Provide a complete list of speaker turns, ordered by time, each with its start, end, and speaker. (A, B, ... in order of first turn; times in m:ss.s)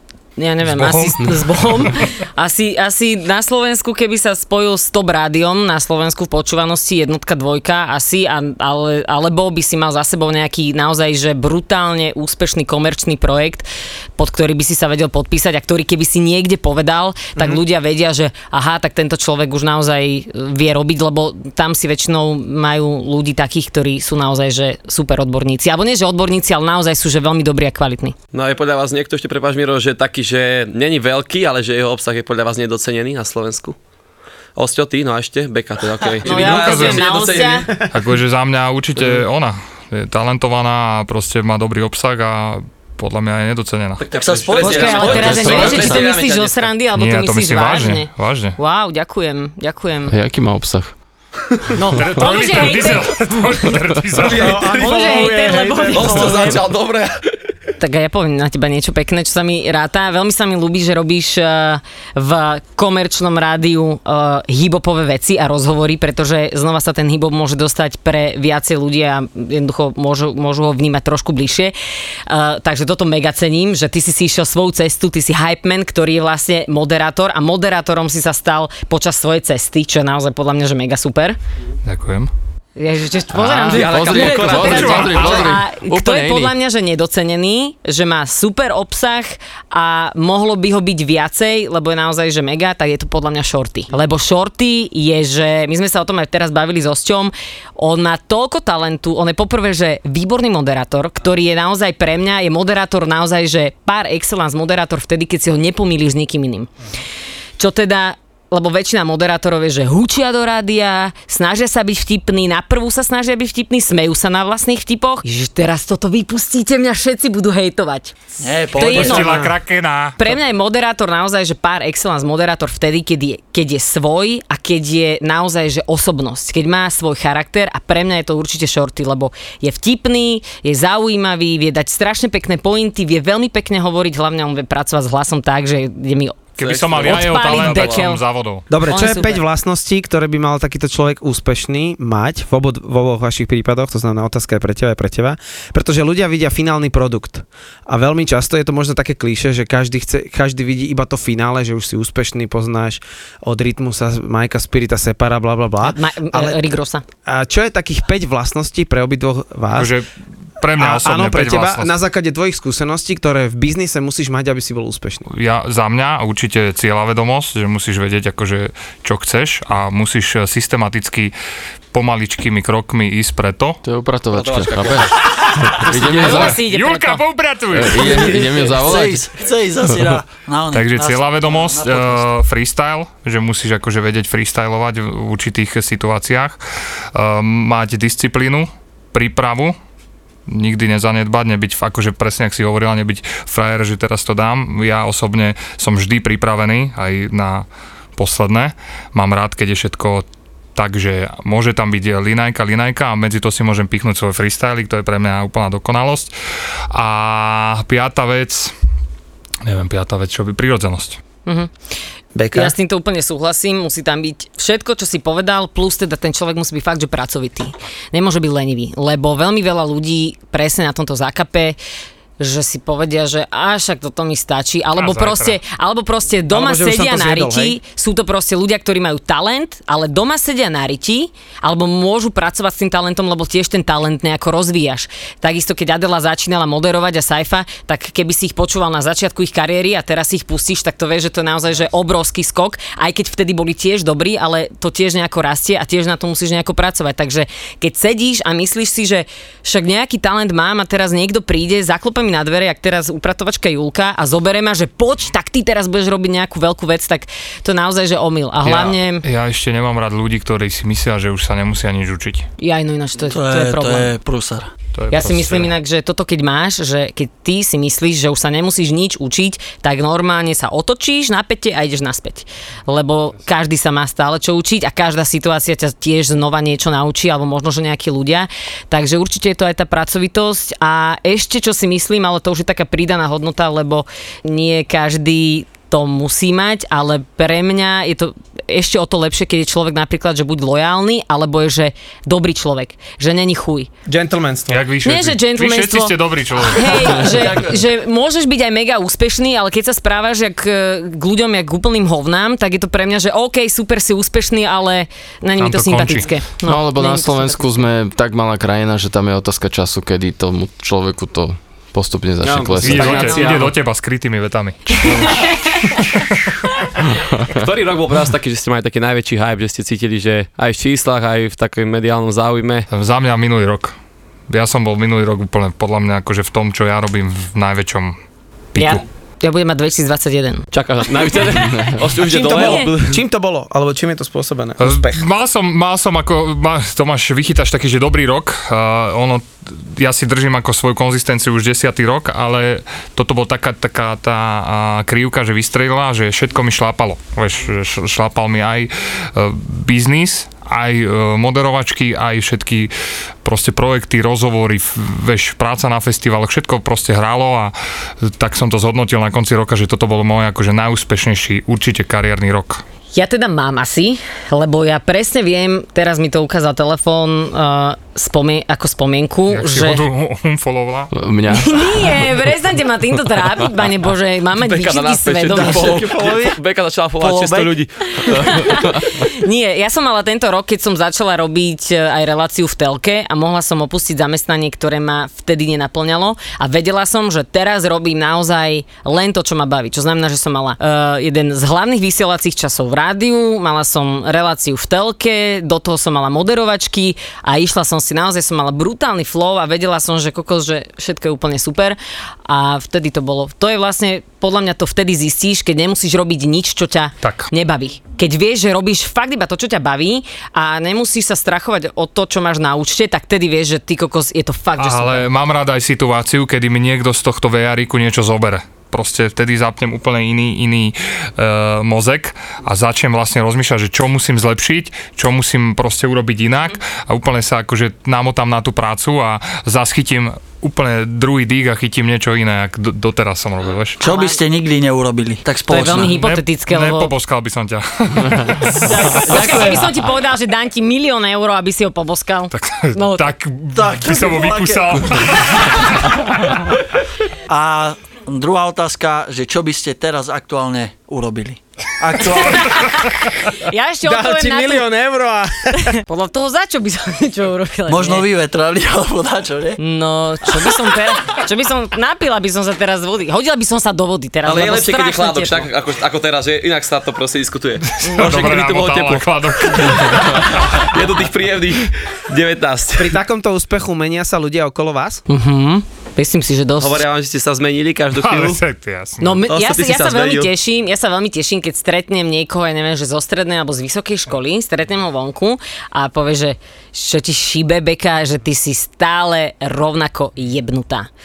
0:00.4-0:28.1 A
0:00.6-0:01.9 B
0:17.4-0:17.6 C
0:28.3-0:33.8 D
0:34.6-0:37.7 D
0:36.2-0:37.7 A
0:36.4-0:37.1 B
0:37.9-0:44.0 B
0:44.0-0:46.6 D
0:44.0-0:46.1 E
0:44.6-0:50.1 A
0:46.9-0:48.6 B
0:50.1-0:50.9 F
0:51.7-0:53.1 A
0:51.9-0:54.8 B
0:54.1-0:56.6 C
0:54.6-0:56.6 A
0:55.9-0:57.3 D
0:57.8-1:11.7 A
1:12.3-1:21.4 A
1:21.8-1:22.3 B
1:22.8-1:46.7 A
1:23.3-1:26.6 F
1:23.7-1:25.5 D
1:24.5-1:25.5 B
1:47.6-1:58.2 A
1:58.4-1:59.4 E
1:58.7-1:59.5 A
1:58.8-2:00.3 B
2:00.2-2:16.4 A
2:16.6-2:18.6 B
2:16.6-2:18.1 D
2:17.0-2:18.2 A
2:18.7-2:36.6 C
2:18.9-2:19.4 A
2:35.8-2:37.0 A
2:37.2-2:39.9 C
2:39.7-2:40.1 B
2:40.6-2:41.9 B
2:40.8-2:45.3 C
2:45.3-2:51.3 B
2:51.9-2:53.8 B
2:53.8-2:56.6 F
2:54.3-2:55.8 D
2:55.6-2:58.2 B
2:56.0-2:57.2 A
2:57.7-2:59.3 F
2:58.2-3:02.3 E
3:00.7-3:06.6 B
3:07.1-3:09.8 B
3:10.5-3:26.3 B
3:26.9-3:28.7 B
3:29.6-3:31.2 B
3:31.4-3:31.7 A
3:32.3-3:32.7 C
3:32.5-3:41.8 A
3:42.4-4:19.2 A
3:44.9-3:45.6 B
3:46.5-3:47.8 C
4:18.6-4:22.4 B
4:22.6-4:24.1 A
4:23.3-4:24.7 E
4:25.0-4:25.7 B
4:25.1-4:53.9 A
4:54.1-4:54.8 C
4:54.7-4:57.5 B
4:55.0-5:07.7 A
5:05.6-5:06.3 B
5:06.6-5:13.4 F
5:12.4-5:13.7 D
5:12.8-5:16.5 B
5:13.0-5:13.6 A
5:17.5-5:22.9 D
5:22.9-5:23.9 B
5:24.5-5:28.2 B
5:28.7-5:29.0 B
5:28.8-5:30.6 A
5:30.7-5:33.1 D
5:32.2-5:35.2 C
5:32.5-5:32.9 A
5:34.8-5:52.9 B
5:53.4-6:02.8 B
6:03.1-6:10.0 A
6:09.5-6:11.1 B
6:11.1-6:12.2 F
6:11.5-6:16.1 A
6:14.6-6:18.7 D
6:15.8-6:16.6 E
6:17.2-6:17.8 E
6:18.2-6:55.3 A
6:47.2-6:47.5 B
6:54.8-7:14.0 B
7:14.0-7:16.2 E
7:14.0-7:14.4 A
7:15.7-7:17.1 A
7:16.1-7:19.8 B
7:18.8-7:23.3 A
7:22.5-7:26.7 B
7:23.7-7:25.4 E
7:27.5-7:32.6 E
7:32.1-7:32.7 C
7:32.5-7:34.8 A
7:34.0-7:36.0 C
7:35.8-7:38.2 A
7:37.9-7:39.8 E
7:39.8-7:45.7 A
7:44.4-7:53.2 D
7:47.9-7:50.9 B
7:53.0-7:55.2 C
7:55.3-7:57.0 A
7:56.8-7:58.6 D
7:58.1-7:59.4 B
7:59.2-8:11.1 A
7:59.5-8:00.5 D